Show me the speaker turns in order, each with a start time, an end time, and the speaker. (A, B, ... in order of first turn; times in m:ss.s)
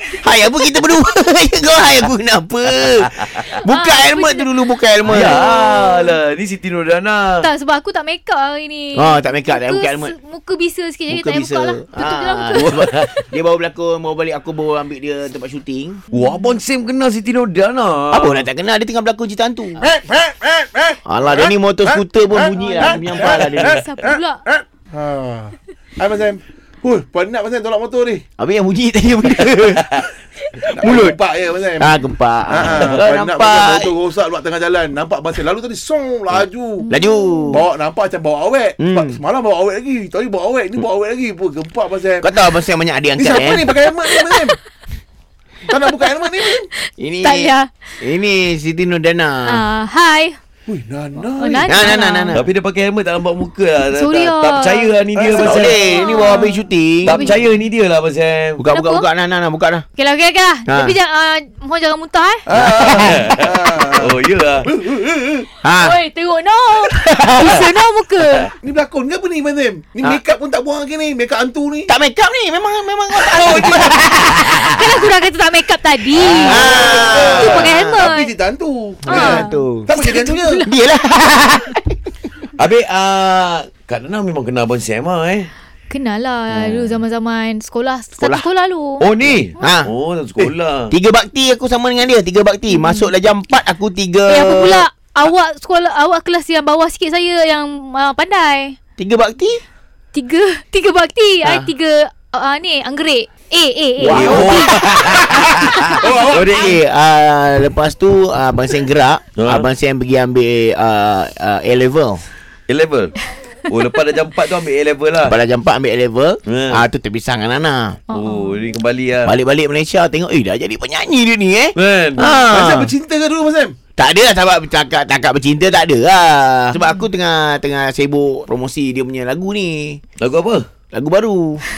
0:00.1-0:05.5 A
0:02.9-0:03.4 B
0:03.6-0:04.5 C
0:05.0-0:07.5 B
0:05.1-0:06.1 C
0:07.4-0:12.7 C
0:09.0-0:10.1 A
0:11.1-0:16.0 A
0:12.6-0:13.2 B
0:16.1-0:16.5 C
0:16.1-0:18.4 B
0:18.1-0:19.8 A
0:19.8-0:28.2 D
0:21.0-0:23.8 A
0:22.5-0:24.4 C
0:28.4-0:30.0 A
0:29.7-0:30.0 B
0:30.6-0:32.0 D
0:30.7-0:31.2 A
0:31.8-0:33.9 A
0:32.5-0:36.8 D
0:36.9-0:37.6 C
0:36.9-0:37.6 A
0:37.5-0:42.3 D
0:38.8-0:39.2 A
0:42.2-0:43.7 A
0:43.2-0:44.6 D
0:45.7-0:46.7 D
0:45.7-0:47.7 C
0:47.0-0:49.6 A
0:49.4-0:50.4 C
0:50.7-0:51.9 D
0:51.3-0:52.4 C
0:51.7-0:52.5 A
0:52.3-0:55.8 B
0:53.9-0:54.9 C
0:55.1-0:56.2 D
0:55.4-0:57.3 A
0:55.8-0:57.4 C
0:57.0-0:58.6 B
0:58.6-0:59.8 A
0:58.7-0:59.0 C
1:00.0-1:02.4 C
1:00.7-1:00.9 A
1:02.5-1:04.1 D
1:02.6-1:03.3 A
1:02.8-1:04.7 B
1:04.7-1:05.5 D
1:05.6-1:06.0 A
1:05.8-1:08.5 C
1:06.9-1:07.7 A
1:08.5-1:11.9 D
1:11.9-1:14.8 A
1:13.1-1:14.2 D
1:14.7-1:18.3 C
1:16.2-1:18.0 A
1:16.4-1:20.6 D
1:19.0-1:19.9 A
1:19.1-1:20.7 C
1:20.6-1:21.8 A
1:22.6-1:25.5 B
1:25.9-1:29.1 C
1:26.5-1:26.9 A
1:28.2-1:28.4 A
1:29.0-1:30.9 B
1:29.3-1:29.9 A
1:30.9-1:34.8 A
1:32.7-1:33.1 C
1:34.3-1:38.8 C
1:39.0-1:39.6 A
1:40.1-1:44.7 C
1:41.4-1:41.7 A
1:44.0-1:52.2 A
1:44.0-1:45.9 B
1:45.4-1:46.8 D
1:49.4-1:49.7 B
1:52.7-1:53.1 B
1:53.7-1:55.4 B
1:55.2-1:58.0 A
1:56.5-1:56.8 B
1:58.1-1:58.6 C
1:58.1-1:59.3 B
1:59.2-2:02.9 A
2:01.8-2:02.3 B
2:02.2-2:03.8 D
2:04.0-2:10.0 A
2:10.2-2:10.6 B
2:10.9-2:11.6 A